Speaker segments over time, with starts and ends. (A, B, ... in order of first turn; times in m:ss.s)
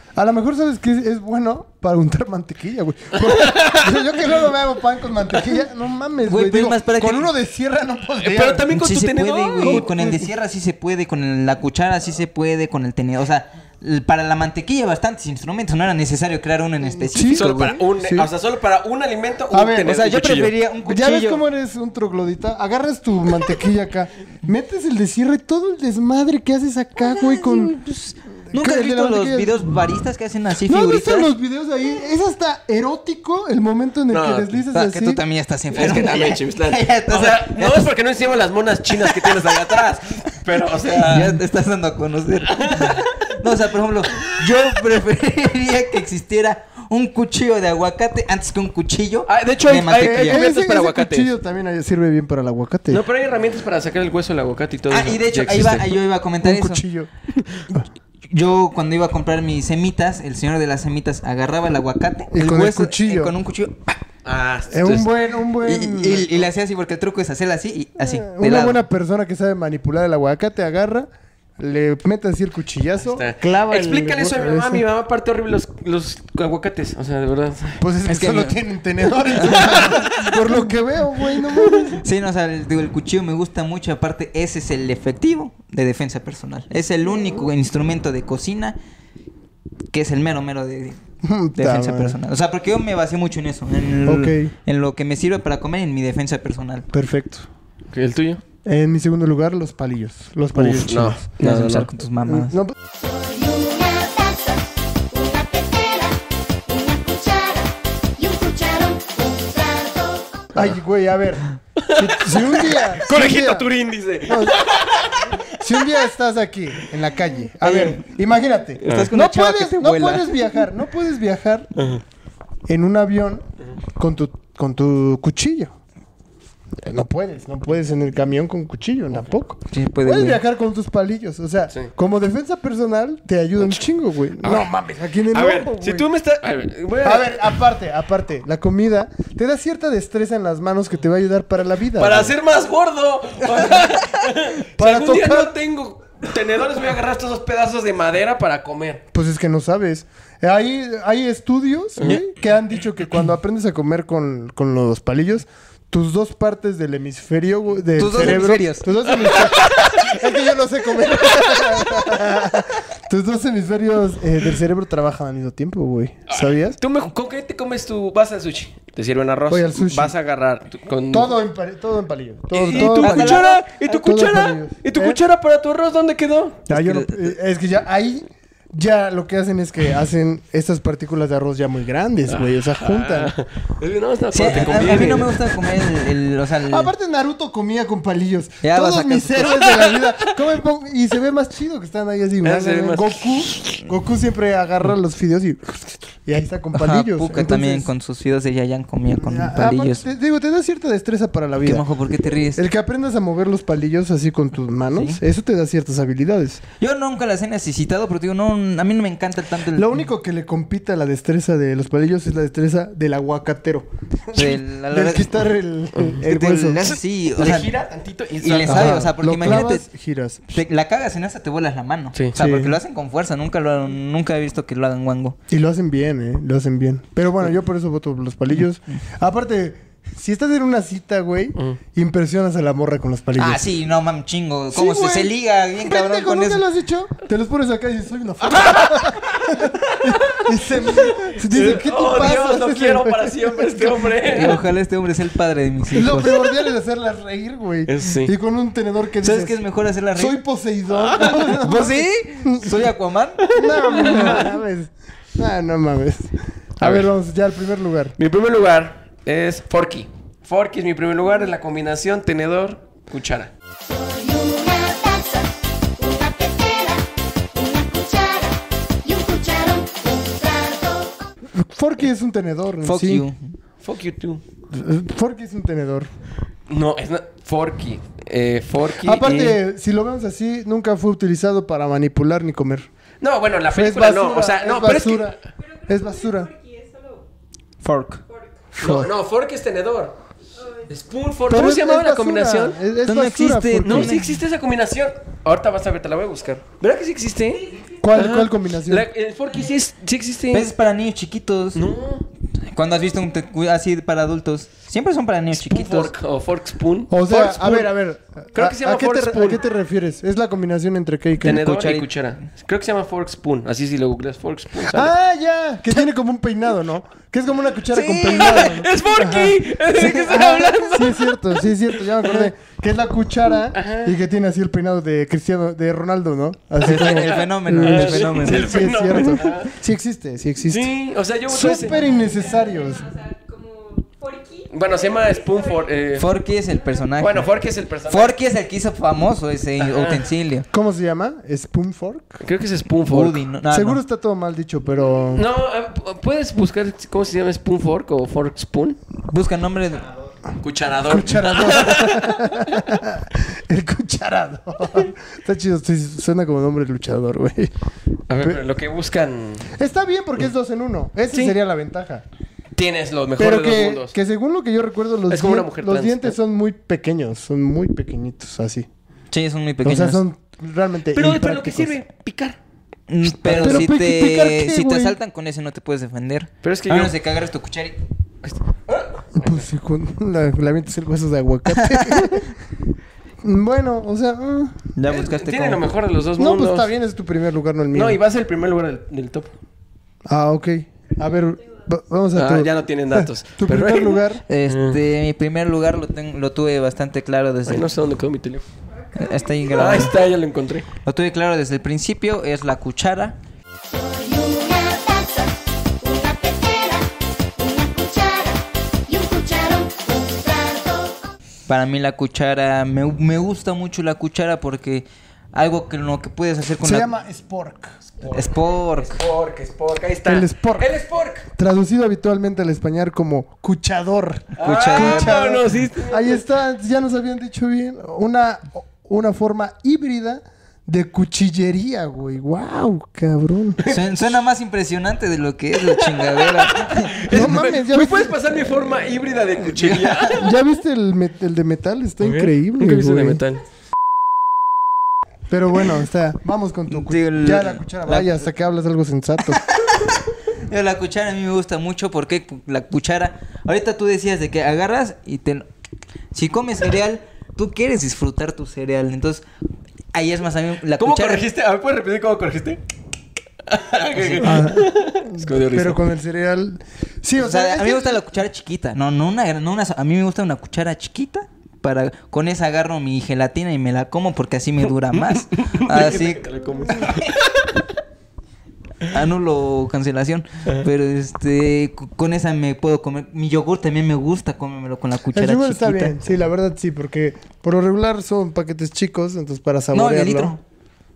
0:00.2-0:08.7 A
0:03.2-0:04.1 B
0:06.2-0:07.3 C
0:08.2-0:10.2 B
0:08.7-0:17.8 C
0:09.6-0:10.2 A
0:17.0-0:18.3 A
0:17.3-0:20.5 B
0:19.5-0:19.9 A
0:19.8-0:21.4 C
0:20.9-0:27.8 A
0:27.0-0:31.3 C
0:28.5-0:29.7 A
0:30.6-0:35.2 A
0:34.1-0:34.6 B
0:34.7-0:37.9 C
0:35.7-0:41.4 B
0:38.9-0:39.8 C
0:40.9-0:50.5 C
0:42.5-0:43.1 B
0:49.3-0:51.3 B
0:50.0-0:53.0 A
0:52.9-0:55.9 B
0:54.9-0:56.8 C
0:56.4-0:57.1 A
0:58.3-1:04.0 C
1:02.3-1:03.4 A
1:04.2-1:05.1 B
1:04.7-1:06.4 A
1:05.6-1:08.8 C
1:08.0-1:14.8 A
1:13.1-1:17.8 B
1:17.8-1:22.0 A
1:18.1-1:18.6 C
1:19.3-1:20.0 C
1:19.6-1:20.0 B
1:21.9-1:28.8 C
1:29.9-1:31.0 C
1:31.2-1:32.2 A
1:31.6-1:36.9 C
1:34.1-1:34.5 A
1:36.9-1:37.5 A
1:37.9-1:38.4 B
1:38.6-1:41.3 A
1:40.6-1:41.9 B
1:41.4-1:42.6 C
1:42.2-1:42.8 A
1:42.9-1:50.5 D
1:50.5-1:53.7 A
1:51.8-1:55.4 B
1:54.2-1:54.8 A
1:55.4-2:01.7 A
1:57.6-1:58.1 C
1:58.8-1:59.1 B
1:58.8-2:00.5 C
2:01.8-2:02.0 B
2:02.7-2:03.4 A
2:04.0-2:05.8 A
2:06.8-2:16.1 A
2:09.7-2:10.4 C
2:14.4-2:14.7 B
2:15.3-2:17.6 B
2:17.0-2:22.3 A
2:22.0-2:29.0 B
2:24.8-2:25.6 A
2:29.1-2:46.8 A
2:38.0-2:38.9 C
2:39.2-2:40.1 B
2:46.3-2:51.4 B
2:49.5-2:50.2 A
2:51.1-2:55.2 A
2:52.5-2:56.6 B
2:52.7-2:53.6 C
2:56.7-3:03.4 A
2:56.7-2:57.4 C
3:02.3-3:05.4 B
3:04.3-3:06.9 C
3:06.7-3:17.9 A
3:08.6-3:09.9 C
3:12.4-3:13.4 B
3:16.7-3:20.0 C
3:19.2-3:21.8 A
3:21.6-3:22.6 C
3:22.6-3:26.6 A
3:24.9-3:25.2 C
3:26.8-3:30.0 C
3:29.7-3:36.9 A
3:34.3-3:35.4 C
3:36.2-3:37.8 C
3:37.4-3:39.6 B
3:38.4-3:39.9 C
3:38.6-3:40.5 A
3:40.5-3:45.4 C
3:42.4-3:42.8 A
3:45.5-3:53.7 A
3:53.4-3:56.6 C
3:54.7-4:04.2 A
3:58.5-4:04.6 B
4:04.2-4:06.5 C
4:05.9-4:09.6 A
4:07.9-4:08.3 B
4:09.2-4:10.4 C
4:10.2-4:12.7 A
4:11.0-4:11.5 B
4:11.2-4:14.3 C
4:13.4-4:14.5 B
4:13.5-4:18.2 A
4:16.8-4:17.1 B
4:18.2-4:23.5 B
4:23.8-4:31.2 D
4:31.5-4:33.3 A
4:32.8-4:33.6 C
4:33.8-4:34.4 B
4:34.7-4:36.1 A
4:36.7-4:39.6 B
4:39.0-4:42.9 A
4:43.2-4:45.3 B
4:43.7-4:46.5 A
4:45.6-4:47.3 D
4:47.8-4:48.2 C
4:48.2-4:48.6 D
4:48.7-4:49.1 A
4:48.8-4:50.2 B
4:50.6-4:50.9 D
4:50.9-4:52.8 B
4:51.5-4:54.2 A
4:53.0-4:54.4 C
4:53.8-5:00.7 B
4:58.0-4:59.1 A
5:00.5-5:01.8 C
5:01.8-5:02.2 B
5:02.6-5:06.1 C
5:05.5-5:07.9 B
5:07.1-5:11.6 A
5:08.6-5:09.6 B
5:11.4-5:15.1 B
5:11.4-5:12.1 C
5:14.9-5:30.9 A
5:17.9-5:18.7 C
5:18.2-5:22.5 B
5:20.0-5:20.5 C
5:23.7-5:24.1 B
5:26.8-5:28.9 C
5:26.8-5:29.8 B
5:30.7-5:32.0 B
5:31.5-5:33.1 A
5:31.9-5:37.1 D
5:34.7-5:36.3 B
5:36.2-5:37.5 C
5:37.2-5:38.3 B
5:38.1-5:40.7 C
5:39.8-5:40.3 B
5:40.7-5:42.4 A
5:42.4-5:43.4 B
5:43.1-5:44.0 C
5:43.7-5:45.4 A
5:45.3-5:49.0 B
5:49.2-5:50.1 C
5:50.6-5:52.8 B
5:51.1-5:57.7 A
5:58.3-5:59.7 B
5:59.7-6:02.2 A
6:02.8-6:04.2 B
6:03.4-6:08.9 A
6:05.3-6:06.4 B
6:09.3-6:10.2 C
6:09.8-6:12.0 A
6:11.1-6:12.6 B
6:13.1-6:18.0 C
6:13.4-6:15.2 A
6:13.5-6:13.9 B
6:16.6-6:17.2 B
6:18.4-6:19.6 B
6:19.4-6:22.6 A
6:21.7-6:22.4 C
6:23.4-6:24.8 A
6:25.0-6:25.8 C
6:25.1-6:26.9 B
6:26.4-6:28.2 A
6:28.0-6:29.5 B
6:30.3-6:34.4 A
6:32.4-6:35.0 B
6:34.5-6:37.9 C
6:37.7-6:38.7 B
6:38.9-6:40.3 D
6:39.2-6:40.2 C
6:39.7-6:40.9 B
6:41.0-6:43.4 C
6:43.8-6:51.3 D
6:51.7-6:57.1 C
6:56.8-6:58.0 A
6:58.2-6:58.5 B
6:58.3-6:59.2 C
6:59.1-7:01.5 B
7:00.3-7:00.9 A
7:01.6-7:13.8 A
7:04.6-7:05.4 C
7:04.6-7:06.4 B
7:13.9-7:17.5 C
7:16.0-7:20.5 B
7:17.3-7:18.4 A
7:19.7-7:20.4 C
7:20.3-7:23.4 A
7:22.2-7:23.6 B
7:25.5-7:29.7 A
7:26.9-7:28.3 C
7:29.5-7:35.7 C
7:36.3-7:39.4 C
7:40.1-7:41.5 C
7:41.0-7:42.8 B
7:43.7-7:46.0 B
7:44.1-7:44.7 C
7:44.4-7:48.2 A
7:47.4-7:57.3 C
7:55.5-7:57.7 B
7:59.1-8:06.2 C
8:05.3-8:10.6 A
8:09.9-8:10.6 C